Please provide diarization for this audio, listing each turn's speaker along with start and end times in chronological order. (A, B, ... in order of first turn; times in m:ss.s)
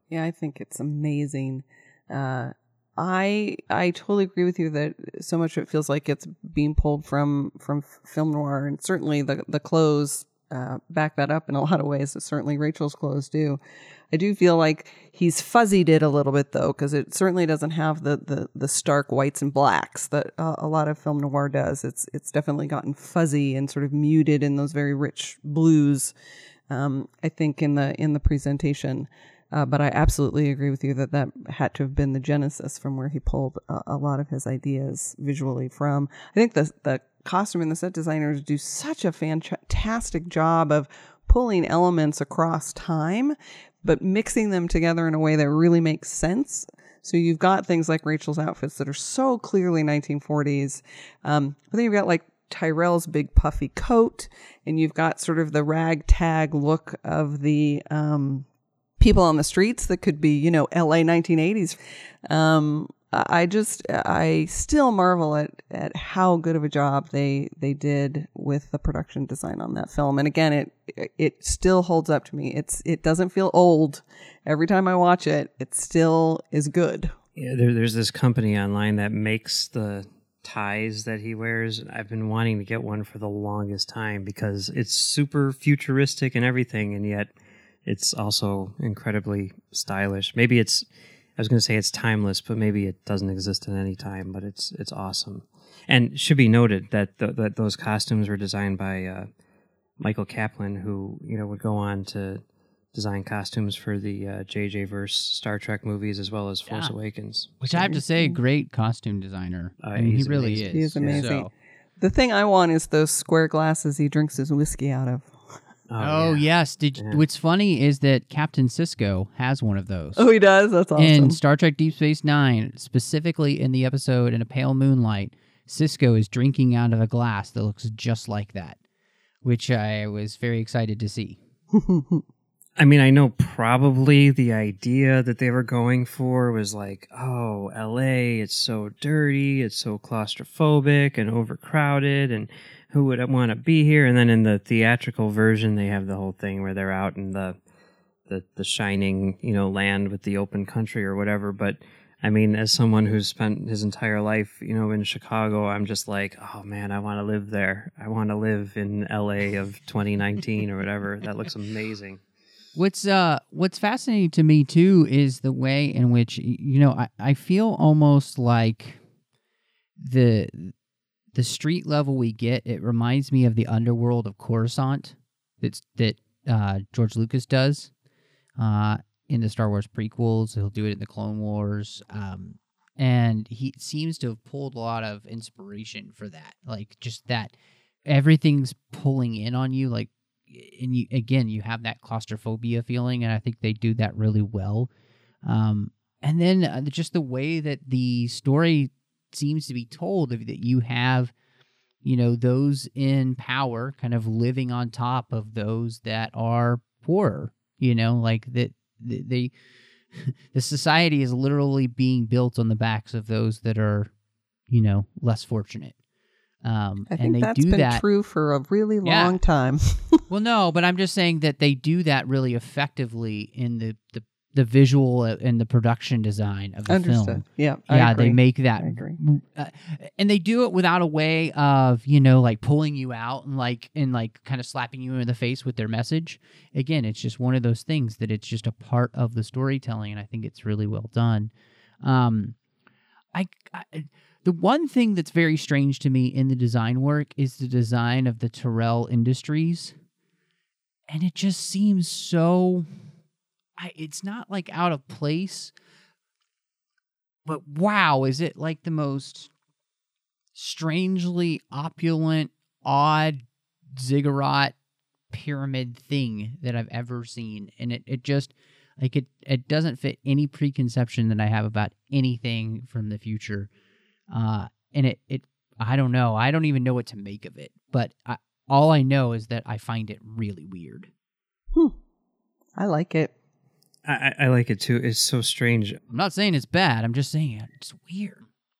0:00.1-0:13.6 A
0:14.1-0:26.1 A
0:26.7-0:58.4 A
0:59.0-1:17.1 A
1:17.3-1:27.3 B
1:27.8-1:30.8 B
1:31.4-1:39.3 B
1:40.0-1:42.4 B
1:42.9-1:47.6 B
1:46.7-1:46.9 C
1:47.6-1:51.5 C
1:47.8-1:48.4 A
1:49.8-1:51.3 B
1:50.7-1:55.3 A
1:55.9-1:57.2 B
1:56.0-2:00.3 C
2:00.2-2:01.4 A
2:01.0-2:08.8 C
2:09.4-2:11.4 C
2:11.7-2:12.2 A
2:12.8-2:27.6 B
2:28.3-2:42.2 B
2:42.7-2:49.0 C
2:50.0-2:50.7 C
2:51.3-2:57.9 C
2:58.6-3:07.5 C
3:08.0-3:14.9 C
3:15.4-3:21.3 C
3:22.0-3:29.5 C
3:30.1-3:34.1 C
3:34.7-3:35.9 C
3:36.6-3:38.0 C
3:37.1-3:40.2 A
3:39.0-3:39.4 C
3:40.3-4:01.5 C
3:46.9-3:49.2 A
4:02.0-4:02.5 C
4:03.3-4:10.0 C
4:11.1-4:12.9 C
4:13.8-4:15.7 C
4:17.4-4:19.5 C
4:20.6-4:23.4 C
4:23.9-4:24.7 C
4:25.3-4:33.7 C
4:34.3-4:41.1 C
4:42.8-4:43.3 A
4:44.0-4:46.0 B
4:46.1-4:48.5 C